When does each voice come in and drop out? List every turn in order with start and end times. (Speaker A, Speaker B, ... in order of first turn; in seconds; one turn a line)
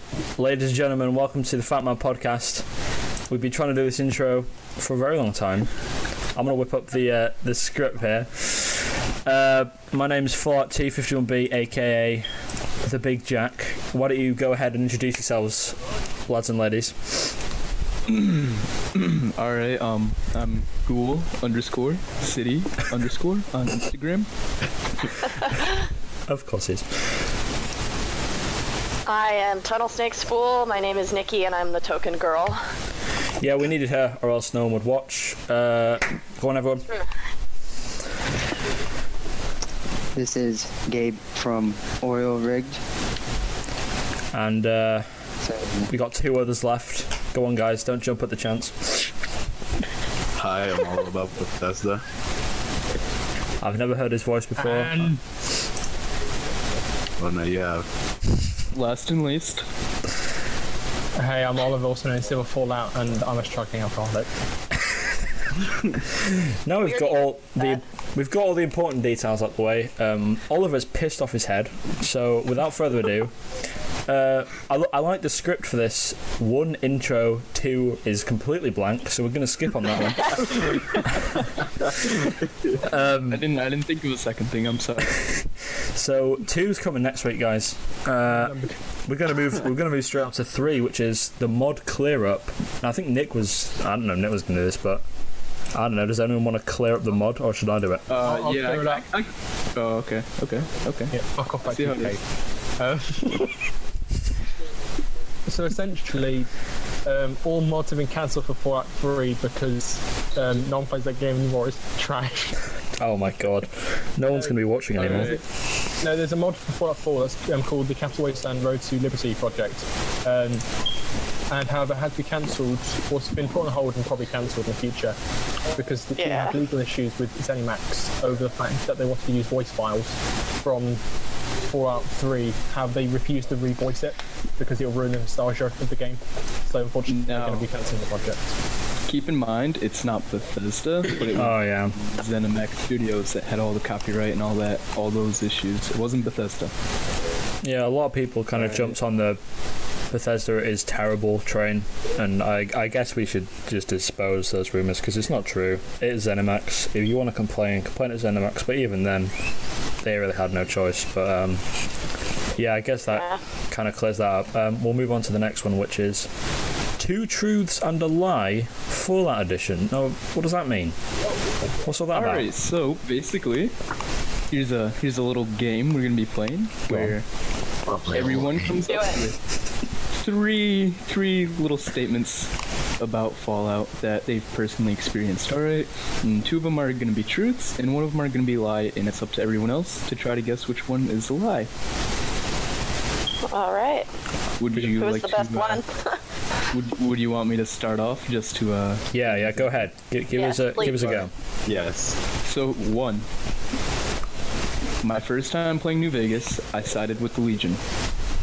Speaker A: 0.4-2.7
Speaker A: 3.3-5.7
Speaker A: 6.3-12.3
Speaker A: 12.8-17.4
Speaker B: 18.1-24.3
Speaker A: 26.3-27.1
Speaker C: 29.1-32.6
Speaker A: 33.4-36.9
Speaker D: 40.1-42.8
Speaker A: 44.3-45.1
Speaker D: 45.4-45.9
Speaker A: 45.9-49.1
Speaker E: 50.4-52.0
Speaker A: 53.6-55.1
Speaker F: 54.6-55.2
Speaker E: 57.2-57.9
Speaker B: 58.7-59.7
Speaker F: 61.2-64.3
Speaker A: 65.9-73.3
Speaker C: 66.9-67.8
Speaker A: 74.1-81.5
Speaker A: 82.8-83.5
Speaker B: 83.3-85.3
Speaker A: 85.3-95.0
Speaker F: 88.3-88.8
Speaker A: 95.7-98.1
Speaker B: 98.1-101.2
Speaker F: 98.2-99.1
Speaker F: 101.1-102.2
Speaker B: 101.7-102.2
Speaker F: 102.8-103.5
Speaker F: 105.5-106.5
Speaker F: 107.0-112.6
Speaker A: 113.0-115.4
Speaker F: 114.3-120.7
Speaker B: 115.0-115.4
Speaker F: 121.5-125.2
Speaker F: 125.8-131.0
Speaker C: 126.2-126.6
Speaker F: 131.7-138.5
Speaker B: 137.1-137.7
Speaker B: 139.1-146.7
Speaker A: 141.3-142.0
Speaker A: 147.6-149.4
Speaker B: 148.6-148.9
Speaker A: 150.1-159.3
Speaker A: 160.0-161.6
Speaker A: 162.6-166.3
Speaker A: 167.0-171.0
Speaker A: 171.8-172.5
Speaker B: 172.1-173.7
Speaker B: 174.5-177.3
Speaker A: 176.9-177.2
Speaker E: 177.9-178.8
Speaker B: 178.1-179.4
Speaker C: 178.9-179.2
Speaker B: 180.1-191.7
Speaker C: 193.5-194.1
Speaker B: 194.6-195.8
Speaker C: 194.8-196.2
Speaker B: 196.7-199.7
Speaker A: 199.1-201.3
Speaker C: 200.3-201.2
Speaker E: 201.7-202.2
Speaker B: 202.4-203.3
Speaker B: 205.0-207.8